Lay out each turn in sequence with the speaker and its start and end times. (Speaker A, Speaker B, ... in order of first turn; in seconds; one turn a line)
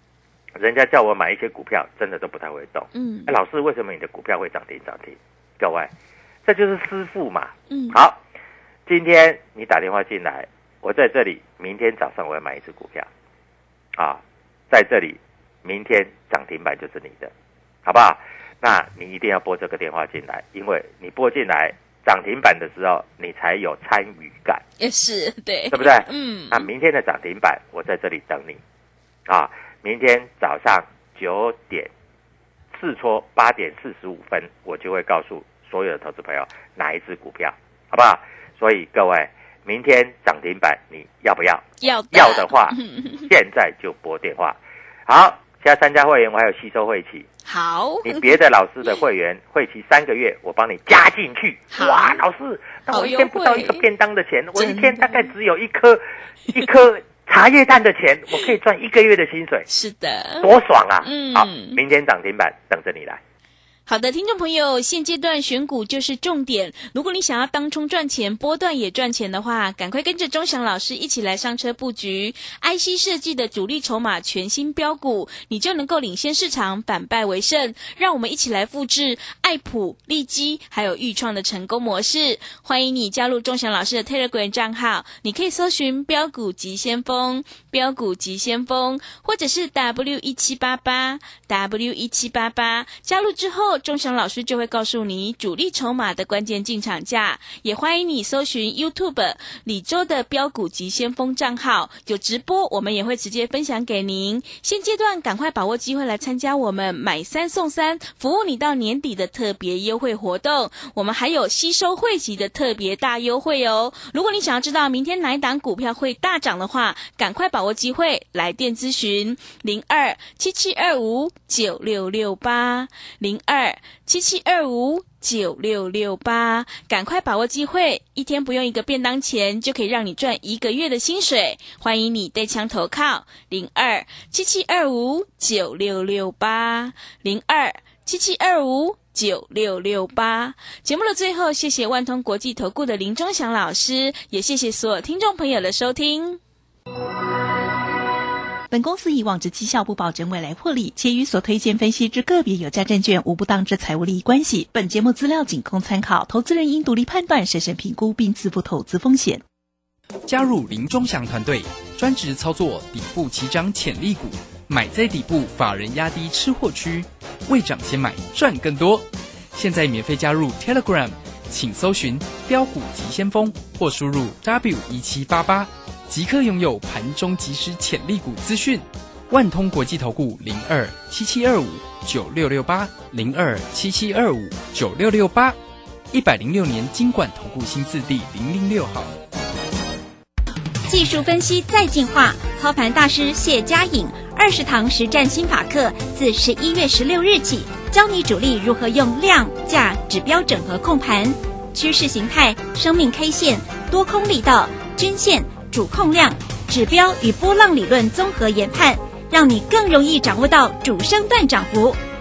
Speaker A: 0.6-5.9
Speaker B: 2.9-3.4
Speaker A: 6.5-8.2
Speaker B: 7.7-8.0
Speaker A: 8.9-13.1
Speaker A: 14.0-17.3
Speaker A: 17.9-24.6
Speaker B: 24.8-26.7
Speaker A: 25.7-28.6
Speaker A: 29.3-31.9
Speaker A: 32.7-47.3
Speaker B: 41.8-43.3
Speaker B: 47.5-48.4
Speaker A: 48.0-59.7
Speaker B: 51.7-52.2
Speaker B: 52.9-53.9
Speaker B: 54.6-55.3
Speaker B: 59.7-61.8
Speaker A: 60.4-63.2
Speaker B: 63.9-146.4
Speaker C: 148.7-159.4
Speaker D: 160.3-185.6
Speaker D: 186.1-189.2
Speaker E: 190.9-212.0